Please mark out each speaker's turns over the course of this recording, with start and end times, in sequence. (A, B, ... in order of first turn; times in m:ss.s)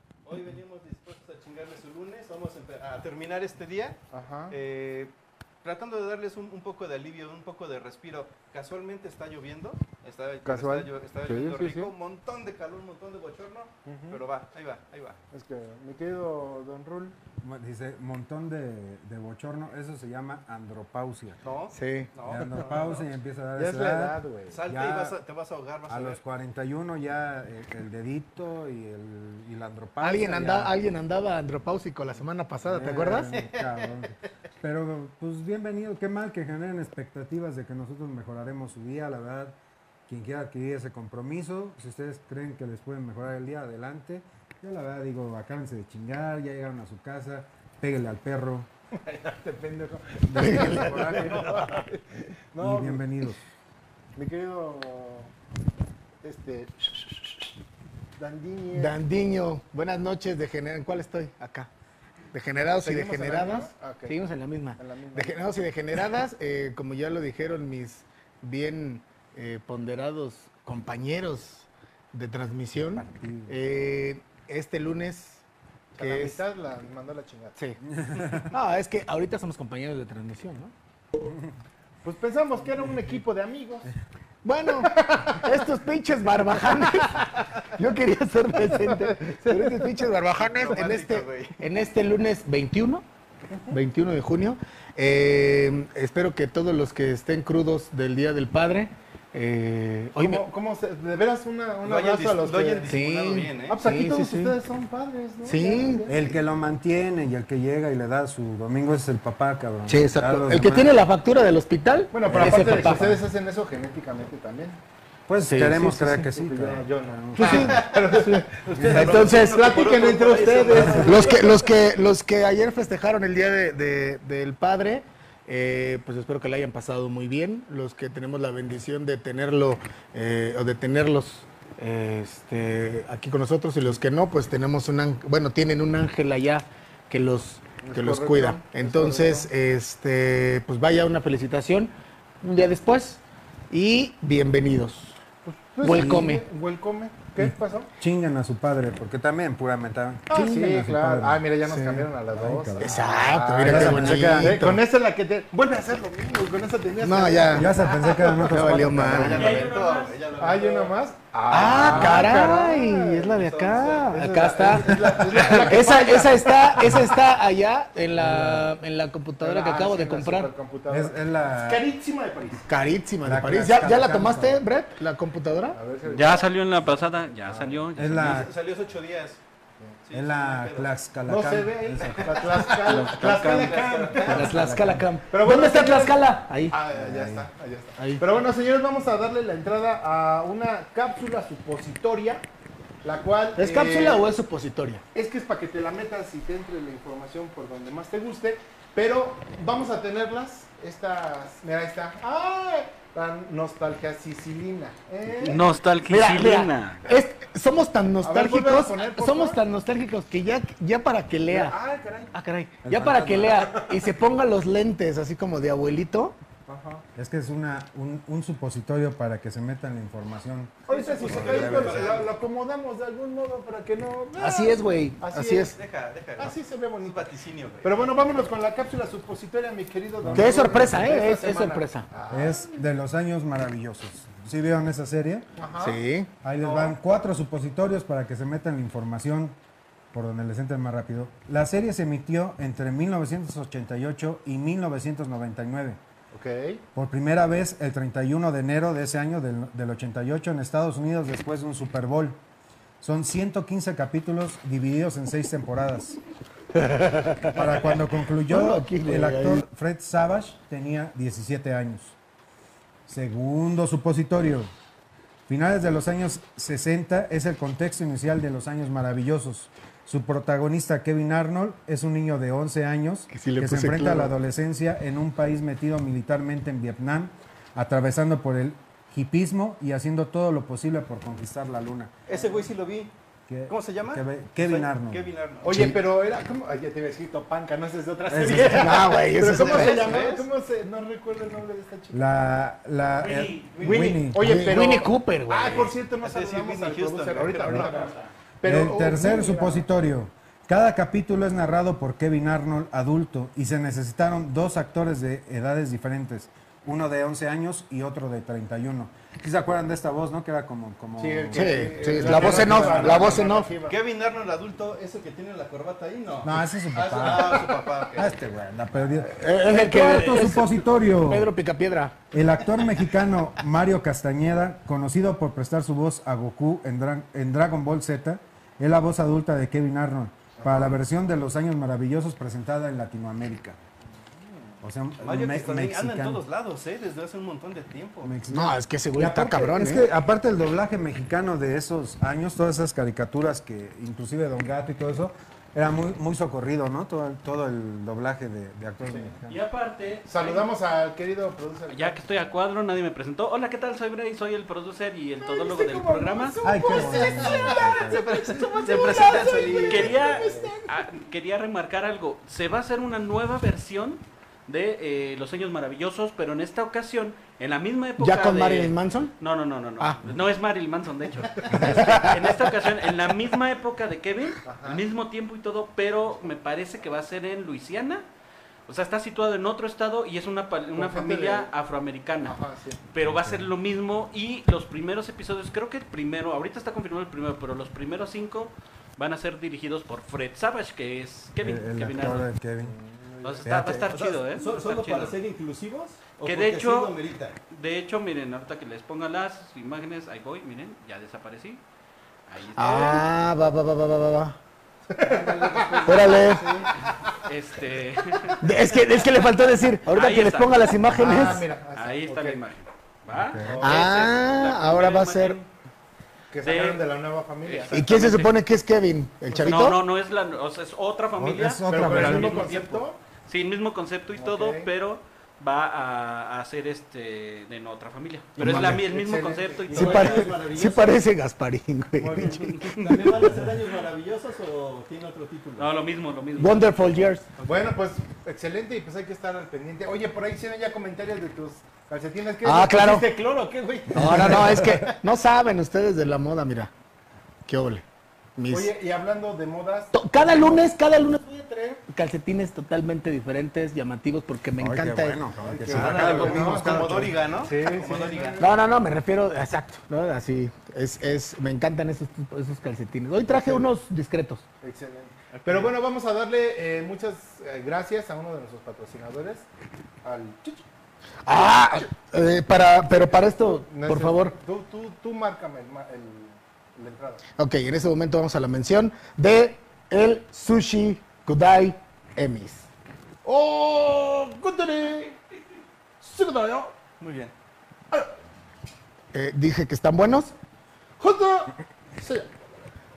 0:00.2-0:04.0 A
0:04.1-0:04.6 B
0:04.5-0:15.2 A
0:10.4-0:11.9 B
0:13.8-0:14.2 B
0:15.3-0:17.2 B
0:17.4-0:21.4 C
0:21.4-0:23.1 A
0:21.7-0:22.1 D
0:22.3-0:25.2 C
0:23.6-0:24.6 B
0:24.5-0:26.2 A
0:25.9-0:30.7 C
0:30.0-0:33.4 D
0:32.6-0:39.6 C
0:33.3-0:34.1 A
0:40.1-0:48.7 C
0:49.0-0:53.1 B
0:50.3-0:51.4 C
0:50.3-0:51.5 D
0:52.6-0:53.4 C
0:54.2-0:55.3 B
0:56.2-0:57.2 B
0:58.2-0:59.0 B
0:58.7-1:01.7 D
1:02.3-1:15.4 D
1:02.8-1:04.2 B
1:04.8-1:05.4 B
1:12.9-1:13.6 C
1:15.9-1:17.6 B
1:16.0-1:16.4 D
1:18.0-1:18.5 C
1:18.5-1:20.7 D
1:22.0-1:23.9 B
1:22.8-1:23.1 C
1:24.4-1:33.0 D
1:24.9-1:25.4 B
1:28.8-1:29.9 B
1:30.5-1:31.6 A
1:33.5-1:33.8 B
1:33.7-1:40.5 D
1:40.2-1:42.9 B
1:41.8-1:43.8 A
1:42.8-1:44.6 D
1:43.7-1:46.4 B
1:45.4-1:46.0 D
1:46.1-1:51.0 C
1:49.8-1:53.2 D
1:52.1-1:54.8 B
1:52.3-1:53.2 C
1:55.3-1:57.7 C
1:55.4-1:56.2 D
1:56.1-2:01.6 B
1:57.4-1:57.8 D
1:57.6-1:58.1 A
1:58.6-2:01.6 A
1:58.8-2:00.0 D
2:01.0-2:25.2 D
2:17.8-2:19.5 B
2:25.4-2:27.9 B
2:25.8-2:26.4 D
2:27.4-2:33.1 C
2:30.3-2:39.4 B
2:32.8-2:34.8 D
2:33.6-2:34.6 C
2:37.0-2:37.7 D
2:37.5-2:39.5 C
2:38.3-2:39.5 D
2:38.9-2:41.0 A
2:39.3-2:40.2 E
2:40.4-2:47.0 B
2:41.5-2:50.5 D
2:41.8-2:42.1 C
2:41.9-2:42.2 A
2:43.3-2:44.2 A
2:48.2-2:48.7 C
2:49.4-2:52.6 B
2:50.9-2:51.8 C
2:52.7-2:55.8 D
2:53.2-2:54.6 C
2:55.7-2:56.9 B
2:56.0-2:58.5 E
2:57.5-2:57.8 B
2:58.0-2:58.5 C
2:58.1-2:59.4 A
3:00.0-3:00.9 A
3:00.1-3:02.4 C
3:01.2-3:04.5 B
3:02.1-3:04.6 A
3:02.7-3:03.9 E
3:04.3-3:07.4 D
3:04.3-3:05.0 C
3:05.3-3:12.4 B
3:08.0-3:08.2 D
3:13.0-3:14.2 B
3:13.6-3:15.0 D
3:15.1-3:25.6 B
3:25.4-3:27.0 E
3:26.1-3:31.8 D
3:28.2-3:29.6 B
3:31.5-3:32.3 B
3:32.3-3:36.4 D
3:32.8-3:33.9 C
3:36.7-3:37.0 B
3:37.2-3:42.2 C
3:40.9-3:45.7 B
3:40.9-3:42.4 A
3:44.4-3:45.8 D
3:45.7-3:48.1 A
3:46.4-3:52.7 B
3:50.2-3:50.8 C
3:50.3-3:52.1 D
3:52.3-3:55.5 C
3:55.6-3:56.0 B
3:55.8-3:56.3 D
3:56.4-3:59.6 C
3:56.5-3:57.0 B
4:00.1-4:06.0 C
4:06.3-4:06.8 B
4:06.9-4:12.4 C
4:13.0-4:16.2 C
4:16.8-4:17.6 D
4:17.5-4:22.2 C
4:18.5-4:19.6 D
4:23.1-4:24.7 C
4:25.5-4:42.1 C
4:33.3-4:34.3 D
4:42.3-4:43.1 A
4:42.3-4:42.6 B
4:43.5-4:45.3 C
4:43.7-4:45.7 A
4:45.6-4:52.3 B
4:48.3-4:48.8 C
4:48.4-4:50.2 D
4:49.5-4:50.5 A
4:52.1-4:54.4 C
4:53.2-4:53.7 E
4:53.8-4:54.2 A
4:53.8-4:59.9 B
4:54.4-4:56.0 D
4:56.2-4:58.3 A
4:58.6-5:13.2 C
5:11.2-5:14.0 B
5:11.5-5:13.7 D
5:12.9-5:13.2 A
5:13.8-5:18.4 A
5:16.4-5:21.5 C
5:17.2-5:17.9 B
5:19.3-5:22.2 D
5:22.3-5:33.8 C
5:30.6-5:31.0 B
5:34.8-5:36.4 C
5:35.2-5:38.4 A
5:38.2-5:49.6 C
5:38.5-5:40.1 D
5:49.5-5:50.7 E
5:50.3-5:52.5 B
5:51.9-5:56.6 E
5:55.4-6:01.0 B
5:56.6-5:58.2 C
5:56.9-6:00.5 A
5:58.2-6:18.2 E
5:59.4-5:59.7 D
6:08.2-6:09.3 D
6:10.0-6:10.3 D
6:11.8-6:12.3 D
6:14.6-6:15.0 B
6:18.9-6:22.6 E
6:20.9-6:21.7 B
6:22.4-6:23.0 B
6:23.1-6:32.5 E
6:23.2-6:23.7 C
6:31.6-6:32.9 C
6:32.8-6:33.7 B
6:33.4-6:35.4 E
6:33.6-6:34.1 C
6:33.9-6:37.6 A
6:36.4-6:37.2 E
6:37.7-6:41.8 E
6:42.5-6:43.3 E
6:42.8-6:44.6 D
6:45.1-6:46.9 B
6:45.8-6:46.1 A
6:46.0-6:46.8 D
6:47.4-6:48.8 E
6:48.6-6:51.7 D
6:50.1-6:51.0 E
6:51.1-6:52.6 B
6:51.9-6:55.7 E
6:53.3-6:53.8 C
6:53.6-6:54.1 B
6:53.8-6:55.6 D
6:56.5-6:58.1 B
6:56.6-6:57.0 E
6:57.6-6:58.5 E
6:57.9-7:00.0 D
6:59.6-7:10.5 E
7:01.4-7:02.9 C
7:01.9-7:03.2 B
7:04.4-7:04.9 B
7:08.6-7:09.0 A
7:08.6-7:10.8 B
7:09.9-7:11.2 A
7:09.9-7:13.7 D
7:12.2-7:12.8 B
7:13.0-7:15.9 A
7:15.8-7:16.9 E
7:16.6-7:17.5 D
7:17.6-7:25.2 B
7:22.6-7:23.3 D
7:24.1-7:26.9 D
7:27.6-7:28.0 D
7:28.6-7:28.9 D
7:28.7-7:30.8 B
7:30.1-7:35.4 D
7:34.8-7:37.4 C
7:35.6-7:38.7 B
7:35.9-7:38.6 A
7:38.6-7:44.6 D
7:43.5-7:43.9 B
7:44.8-7:49.7 B
7:45.5-7:45.9 A
7:50.2-7:50.8 B
7:51.4-7:54.6 D
7:53.1-7:57.4 B
7:57.6-8:02.9 D
8:03.4-8:05.4 B
8:06.2-8:06.9 B
8:07.2-8:07.5 A
8:09.3-8:10.5 D
8:11.2-8:12.5 B